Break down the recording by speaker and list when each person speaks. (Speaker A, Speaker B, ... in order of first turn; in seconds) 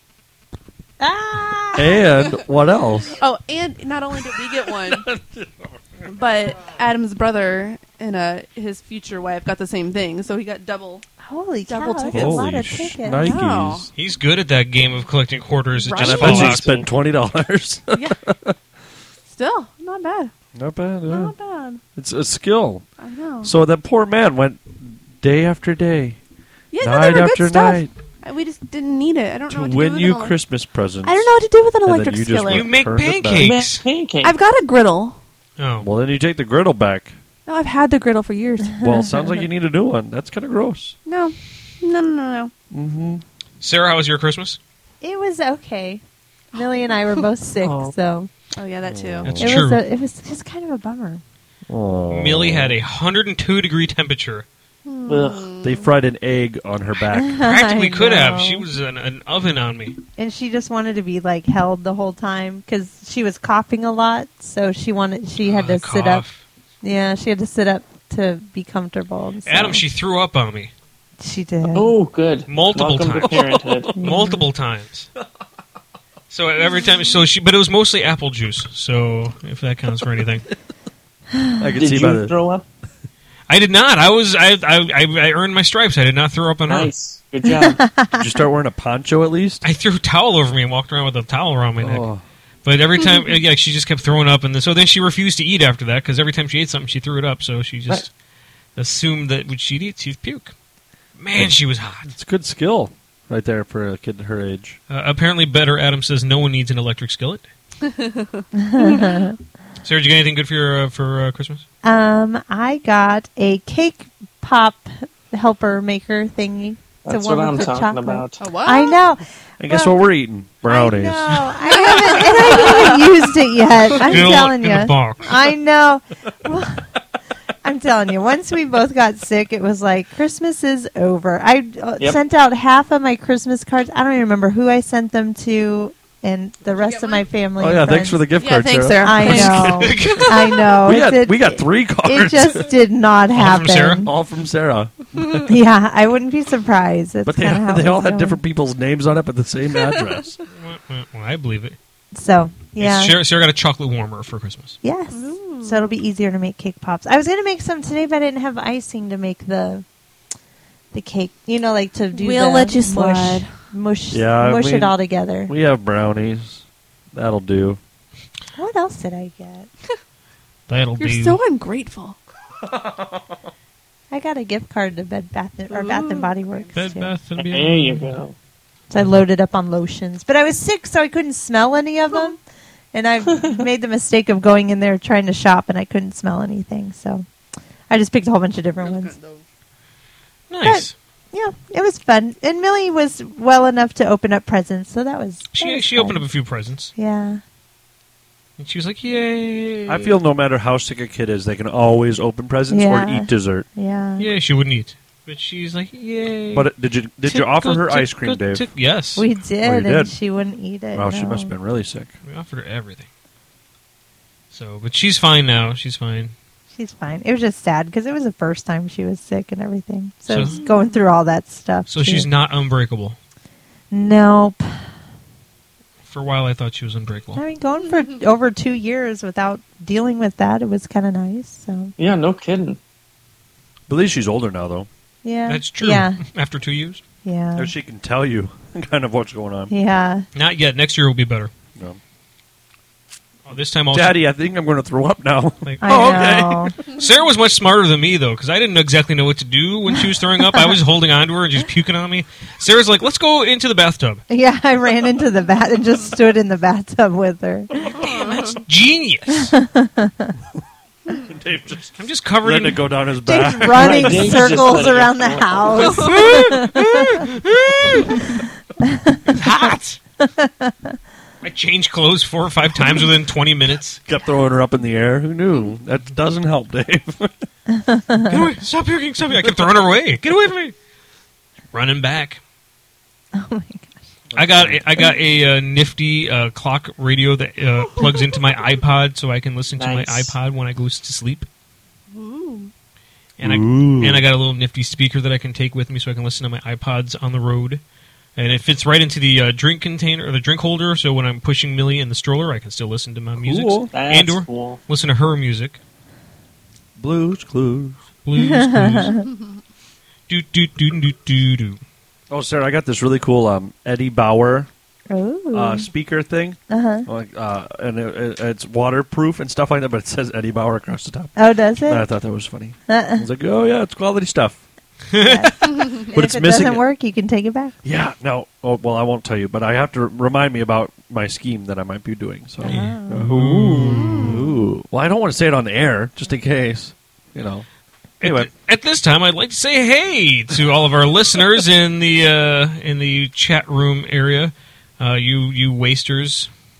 Speaker A: 1.0-2.0, 11.2-13.4, 45.0-46.0, 46.5-48.3, 49.4-51.2, 57.1-58.6, 60.2-66.2, 66.8-69.8, 71.2-71.9, 74.0-74.5, 87.4-88.3, 108.6-109.4, 111.8-120.0, 120.7-126.8, 127.6-138.2, 139.0-144.1, 145.4-148.4, 152.1-153.2, 154.8-159.8, 160.9-165.5, 168.5-169.7, 174.1-177.2, 178.9-182.4, 182.9-187.3, 187.9-189.2, 190.6-196.2, 196.9-197.4, 202.7-204.3, 209.2-211.5, 216.7-222.3, 223.9-224.8, 227.3-231.9, 235.2-236.2, 237.2-237.7, 239.7-240.2, 245.8-246.8, 250.4-250.8, 254.3-257.7, 259.5-260.3, 263.2-267.3, 268.9-269.3, 270.2-270.7, 277.9-278.3, 283.3-283.9, 308.4-309.2, 315.1-315.9, 316.7-317.1, 321.4-322.1, 322.9-323.3, 325.2-327.8, 332.6-333.3
Speaker B: 1.7-3.2, 4.8-6.1, 12.1-13.9, 15.9-18.6, 20.6-21.3, 21.9-22.8, 23.4-26.2, 26.8-27.9, 29.5-31.3, 31.8-33.5, 35.8-37.1, 38.8-41.0, 42.7-43.2, 48.8-49.6, 51.7-52.8, 55.6-57.4, 73.2-73.9, 81.6-82.3, 88.1-89.6, 91.8-92.2, 102.0-104.8, 119.6-121.6, 137.6-139.8, 140.8-142.7, 144.0-145.5, 147.2-150.4, 164.1-167.8, 172.6-173.3, 199.9-203.7, 206.5-208.7, 209.6-210.1, 210.9-212.1, 233.9-234.9, 237.6-239.7, 243.9-246.7, 257.8-258.4, 261.1-264.8, 274.0-277.3, 279.4-279.7, 284.3-284.8, 293.4-294.2, 303.4-303.9, 307.0-308.0, 312.3-314.7, 315.5-324.6, 326.1-326.9, 327.8-337.6, 338.2-338.5
Speaker C: 3.2-5.1, 6.0-11.0, 11.7-12.5, 13.2-13.9, 15.8-16.6, 17.9-18.2, 19.3-20.3, 21.1-21.8, 23.0-23.5, 26.7-30.4, 31.0-32.7, 34.2-35.2, 37.5-38.8, 41.0-42.5, 48.5-49.3, 54.8-55.9, 107.8-109.2, 118.4-119.0, 121.7-123.2, 136.8-137.2, 138.4-140.6, 155.1-155.9, 162.2-163.5, 171.0-172.2, 175.7-176.7, 188.8-189.4, 220.4-221.0, 258.0-258.6, 265.8-266.3, 292.1-292.7, 333.8-334.4
Speaker D: 13.9-16.7, 32.5-33.8, 35.6-35.9, 43.6-44.6, 49.2-49.8, 52.1-54.5, 57.4-60.0, 65.4-66.4, 69.5-70.7, 72.5-75.1, 76.3-80.5, 83.5-86.9, 89.6-92.1, 92.6-98.1, 98.8-100.5, 101.2-102.1, 104.9-107.5, 109.8-111.6, 123.9-125.3, 139.7-140.6, 143.3-144.1, 150.5-151.8, 152.8-154.8, 170.7-171.4, 176.7-178.2, 178.9-179.2, 190.5-190.9, 195.5-196.9, 198.6-200.2, 204.2-206.7, 207.2-209.2, 212.2-213.1, 214.5-216.3, 220.3-220.6, 221.9-223.2, 226.1-227.4, 235.5-237.0, 240.3-241.5, 243.4-244.2, 245.6-245.9, 246.9-254.2, 257.9-259.5, 262.0-262.8, 265.8-268.3, 269.3-270.0, 271.4-274.0, 278.3-280.7, 281.7-282.4, 284.3-291.5, 293.4-297.8, 298.4-305.8, 308.2-309.2, 310.3-311.8, 325.1-325.9, 332.6-334.3, 338.2-346.5
Speaker E: 16.2-16.8, 33.4-34.3, 47.6-47.9, 55.1-55.5, 71.7-74.0, 81.8-82.6, 86.7-87.8, 117.0-118.5, 177.3-178.3, 183.3-183.6, 232.0-232.8, 263.7-265.9, 289.7-290.3, 303.9-304.8